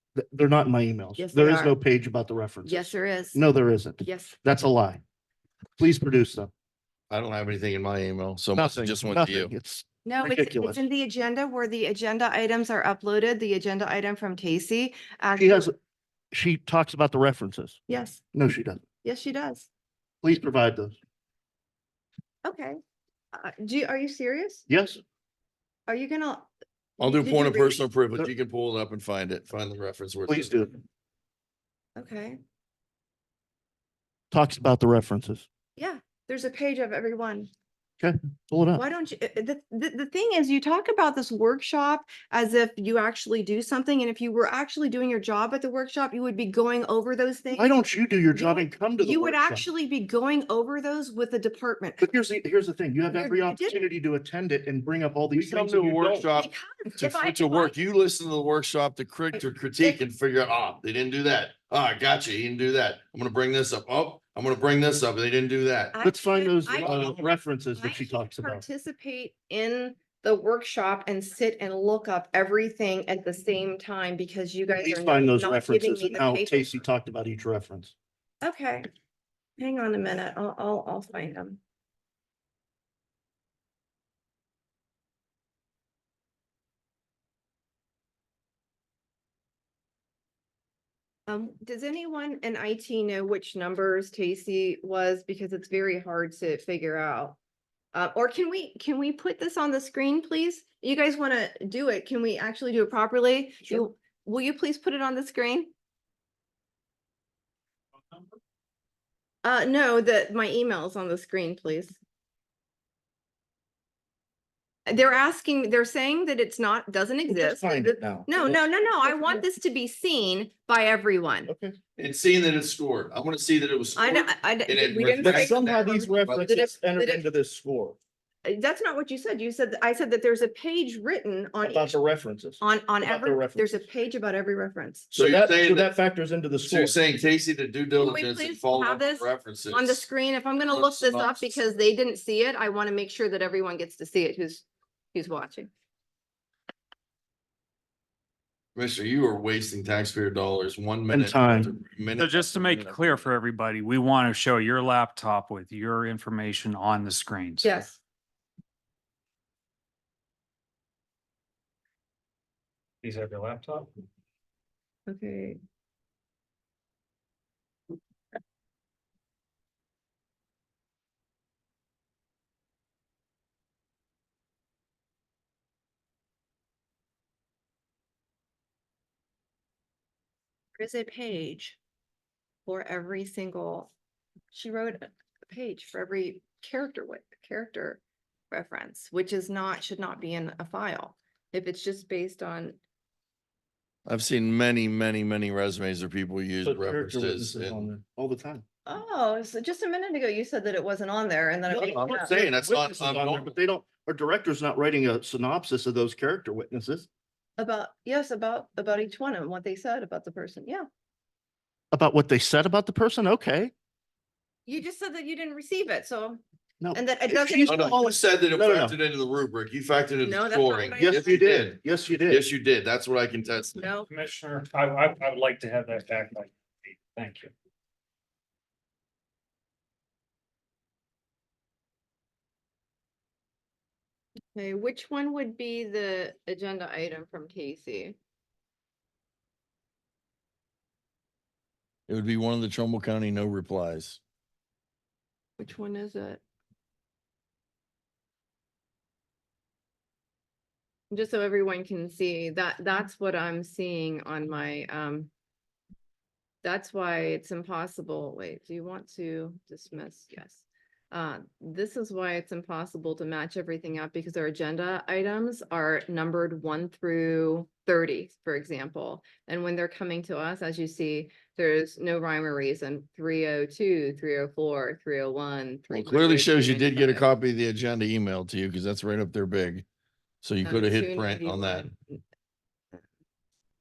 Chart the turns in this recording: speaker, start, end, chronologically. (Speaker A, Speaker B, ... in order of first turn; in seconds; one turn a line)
Speaker A: 0.2-5.0
Speaker B: 1.2-1.8
Speaker B: 2.6-3.4
Speaker B: 4.0-4.4
Speaker A: 5.8-6.5
Speaker C: 7.1-9.5
Speaker A: 8.6-10.8
Speaker B: 10.1-15.7
Speaker A: 15.4-15.7
Speaker A: 16.3-17.8
Speaker B: 17.9-18.2
Speaker A: 18.3-18.8
Speaker B: 19.0-19.7
Speaker A: 20.2-21.0
Speaker B: 22.4-22.8
Speaker B: 23.3-24.7
Speaker A: 24.7-25.0
Speaker B: 25.9-26.5
Speaker C: 27.0-30.5
Speaker B: 27.1-27.8
Speaker A: 30.3-30.7
Speaker B: 32.0-32.4
Speaker A: 34.3-35.5
Speaker B: 35.8-37.5
Speaker A: 38.0-38.8
Speaker B: 38.7-47.7
Speaker A: 47.5-49.7
Speaker B: 48.3-52.1
Speaker A: 52.0-56.3
Speaker B: 53.1-53.8
Speaker C: 55.3-66.0
Speaker B: 56.4-57.8
Speaker B: 59.3-60.0
Speaker B: 65.9-67.2
Speaker A: 66.0-68.6
Speaker C: 66.8-67.2
Speaker B: 67.8-76.8
Speaker A: 74.8-78.0
Speaker B: 78.4-78.9
Speaker B: 79.6-81.6
Speaker B: 91.3-97.4
Speaker B: 97.9-105.7
Speaker B: 109.4-112.0
Speaker B: 114.9-121.5
Speaker A: 117.3-119.5
Speaker A: 121.5-121.8
Speaker C: 122.0-126.5
Speaker B: 124.0-127.2
Speaker A: 125.2-128.0
Speaker B: 128.4-131.9
Speaker A: 131.6-133.8
Speaker B: 132.6-135.1
Speaker A: 135.1-137.0
Speaker C: 135.1-135.9
Speaker C: 136.7-140.0
Speaker B: 138.0-145.7
Speaker C: 140.7-141.6
Speaker C: 148.8-153.2
Speaker A: 151.1-151.7
Speaker D: 152.2-157.8
Speaker B: 157.6-158.0
Speaker D: 163.0-163.9
Speaker B: 165.1-165.6
Speaker B: 180.8-181.8
Speaker B: 182.7-183.9
Speaker B: 184.5-192.8
Speaker C: 194.1-197.9
Speaker A: 196.6-198.6
Speaker B: 198.9-202.3
Speaker A: 201.7-207.1
Speaker C: 201.8-203.6
Speaker B: 207.6-210.9
Speaker A: 211.9-213.7
Speaker B: 214.7-216.4
Speaker A: 216.8-219.0
Speaker B: 216.9-218.0
Speaker C: 217.7-223.9
Speaker B: 220.2-221.6
Speaker A: 221.0-222.4
Speaker B: 223.8-224.1
Speaker D: 224.1-227.5
Speaker B: 234.6-238.2
Speaker C: 242.1-244.2
Speaker B: 245.6-246.4
Speaker B: 251.1-255.3
Speaker B: 256.6-277.3
Speaker C: 275.9-279.9
Speaker C: 280.4-281.9
Speaker B: 280.6-282.2